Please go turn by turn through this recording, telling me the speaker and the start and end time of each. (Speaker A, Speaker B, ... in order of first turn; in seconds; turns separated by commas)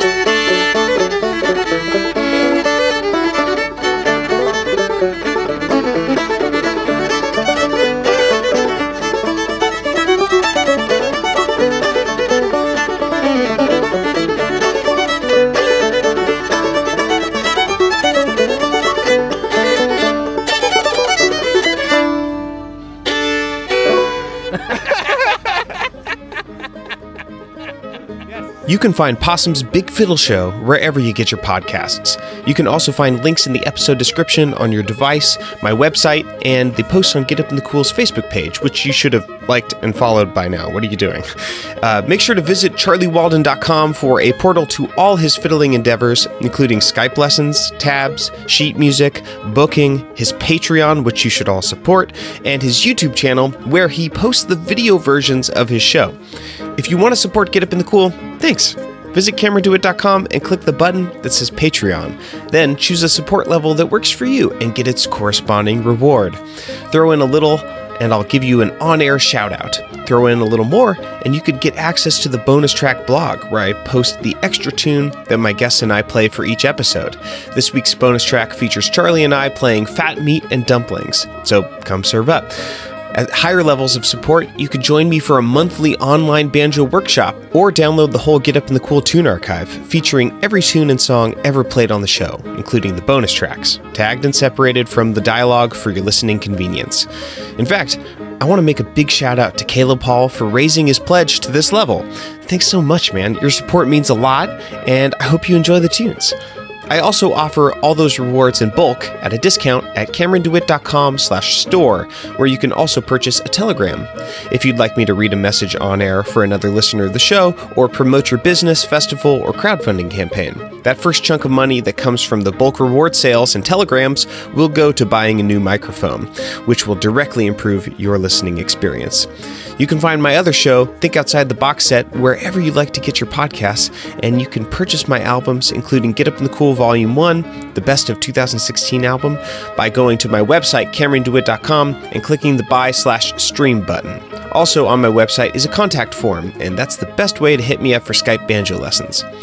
Speaker A: 28.7-41.3, Speaker A: 41.8-56.1, Speaker A: 56.8-66.4, Speaker A: 66.9-82.5, Speaker A: 83.1-97.1, Speaker A: 97.6-106.3, Speaker A: 106.9-149.2